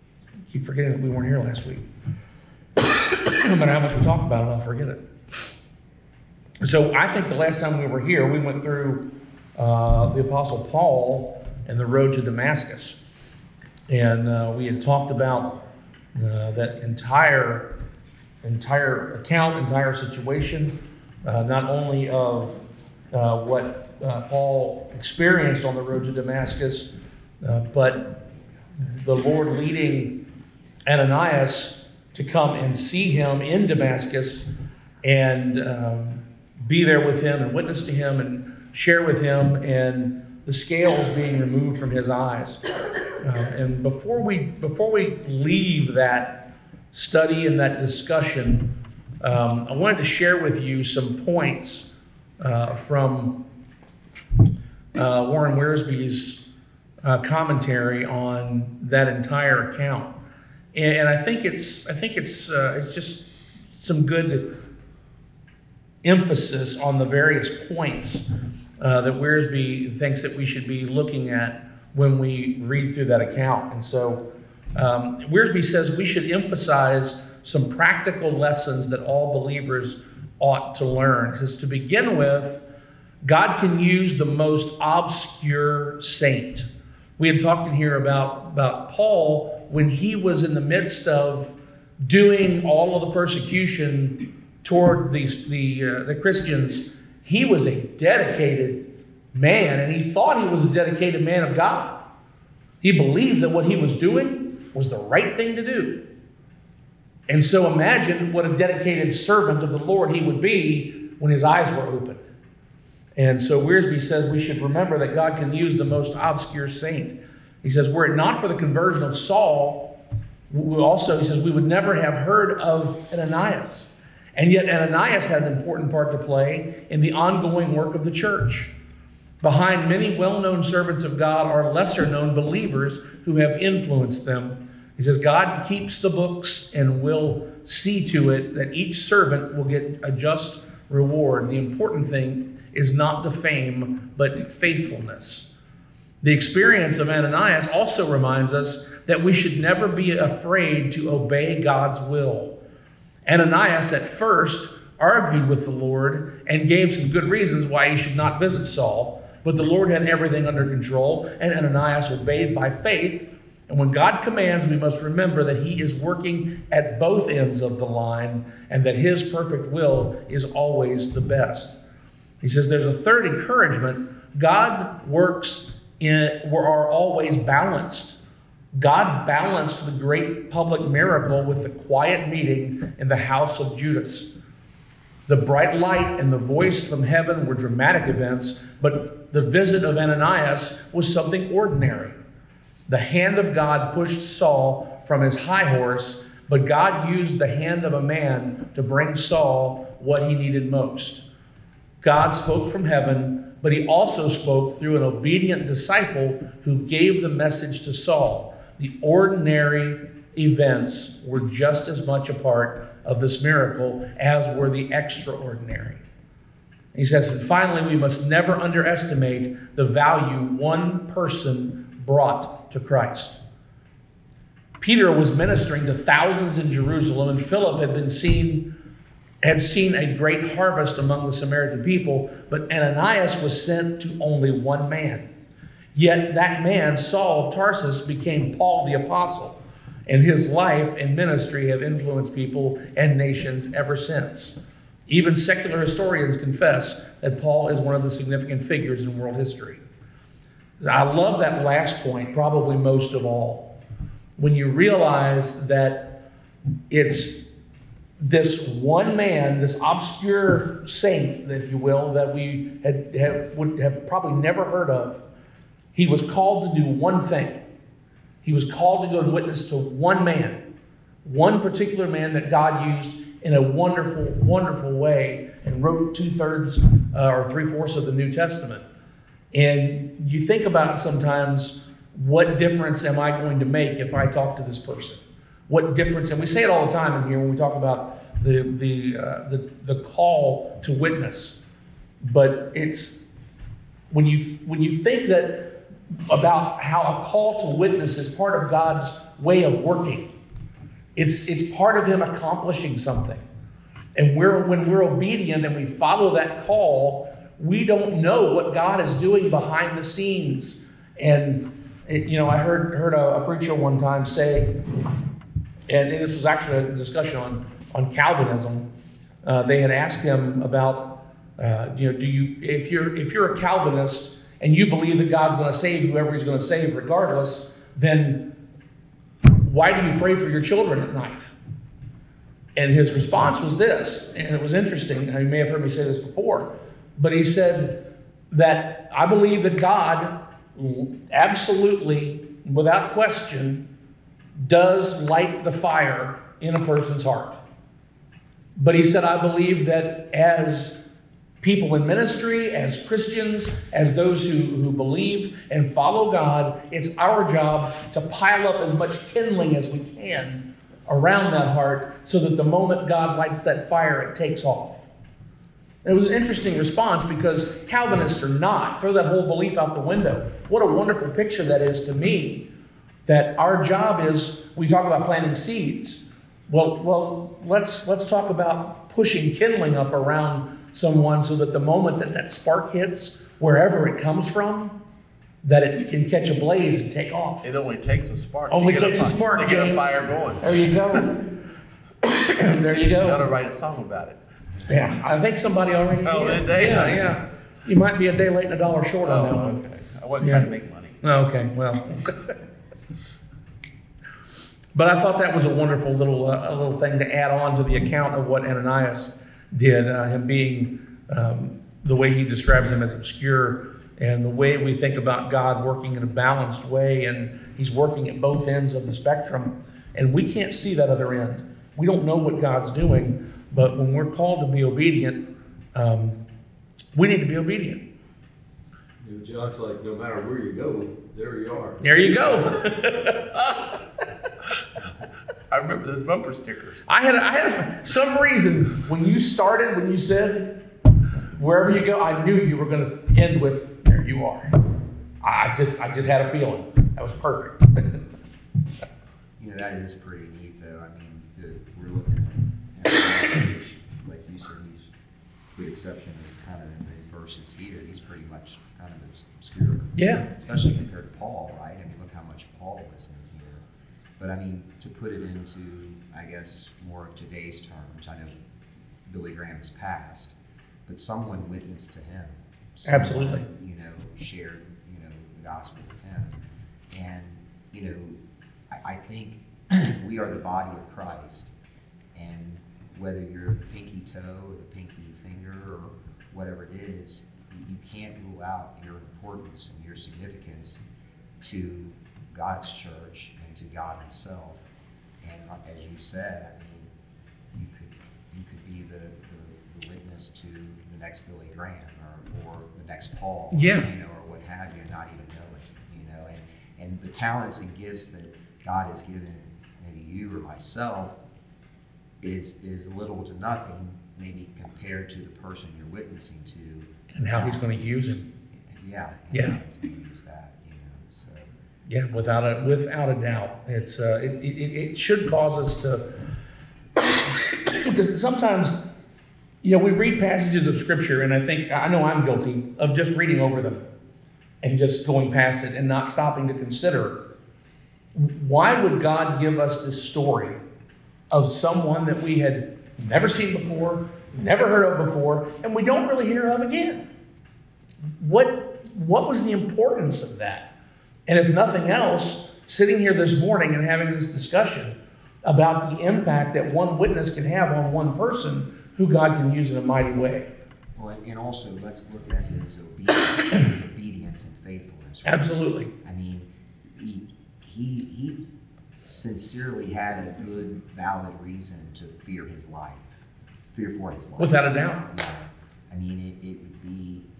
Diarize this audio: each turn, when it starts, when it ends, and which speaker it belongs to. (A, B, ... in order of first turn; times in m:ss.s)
0:00.5-0:01.9 A
0:02.8-0:05.0 A
0:06.6-0:13.0 A
0:13.9-0:15.6 A
0:16.2-0:17.7 A
0:18.4-0:22.6 A
0:23.1-0:28.2 A
0:28.8-0:30.2 A
0:30.9-0:34.5 A
0:35.0-0:42.7 A
0:43.2-0:53.4 A
0:55.0-0:56.5 A
0:57.0-1:00.1 A
1:00.7-1:04.6 A
1:06.0-1:08.3 A
1:08.8-1:22.6 A
1:23.2-1:26.7 A
1:27.2-1:42.1 A
1:42.8-1:46.0 A
1:47.3-1:52.2 A
1:53.2-2:00.0 A
2:00.5-2:08.7 A
2:09.4-2:25.5 A
2:26.2-2:32.6 A
2:33.3-2:51.8 A
2:52.4-2:58.2 A
2:58.7-3:04.3 A
3:05.3-3:12.2 A
3:12.9-3:21.2 A
3:22.0-3:36.0 A
3:36.9-3:43.4 A
3:44.8-3:48.7 A
3:49.4-3:55.3 A
3:55.9-4:04.6 A
4:05.1-4:09.8 A
4:10.8-4:13.7 A
4:14.4-4:16.2 A
4:16.9-4:17.5 A
4:18.2-4:25.2 A
4:25.9-4:27.6 A
4:28.4-4:30.6 A
4:31.2-4:38.8 A
4:39.5-4:51.6 A
4:52.2-4:53.3 A
4:54.1-5:00.3 A
5:01.2-5:03.4 A
5:04.2-5:14.8 A
5:15.9-5:18.9 A
5:19.4-5:28.5 A
5:29.6-5:31.4 A
5:32.8-5:43.9 A
5:44.6-5:47.6 A
5:48.8-5:51.1 A
5:51.6-6:05.1 A
6:06.0-6:12.7 A
6:13.3-6:25.0 A
6:25.6-6:27.7 A
6:27.6-6:31.2 B
6:28.7-6:31.5 A
6:32.2-6:33.4 A
6:33.1-6:34.4 B
6:34.9-6:39.8 A
6:36.2-6:37.4 B
6:39.2-6:41.2 B
6:40.4-6:40.7 A
6:41.2-6:42.5 A
6:45.0-7:06.4 A
7:07.1-7:08.1 A
7:09.2-7:12.7 C
7:12.0-7:13.3 A
7:15.7-7:17.0 B
7:17.1-7:20.9 A
7:21.5-7:24.7 A
7:25.4-7:28.2 A
7:29.6-7:35.1 D
7:35.7-7:43.8 D
7:40.2-7:40.5 A
7:44.4-7:48.5 D
7:49.2-7:50.5 D
7:51.1-7:56.6 D
7:53.0-7:53.7 A
7:57.1-8:01.7 D
8:02.4-8:11.0 D
8:11.6-8:14.9 D
8:15.4-8:17.1 D
8:17.7-8:31.4 D
8:23.7-8:24.1 A
8:32.4-8:38.2 D
8:37.3-8:38.5 A
8:38.7-8:41.7 D
8:39.5-8:39.8 A
8:42.1-8:46.3 A
8:47.2-8:49.0 A
8:49.8-8:54.0 A
8:54.8-8:57.4 A
8:58.3-9:00.8 A
9:01.5-9:07.2 A
9:08.4-9:10.9 A
9:11.5-9:20.7 A
9:21.2-9:28.6 D
9:25.4-9:26.1 A
9:29.2-9:37.5 D
9:34.6-9:35.3 A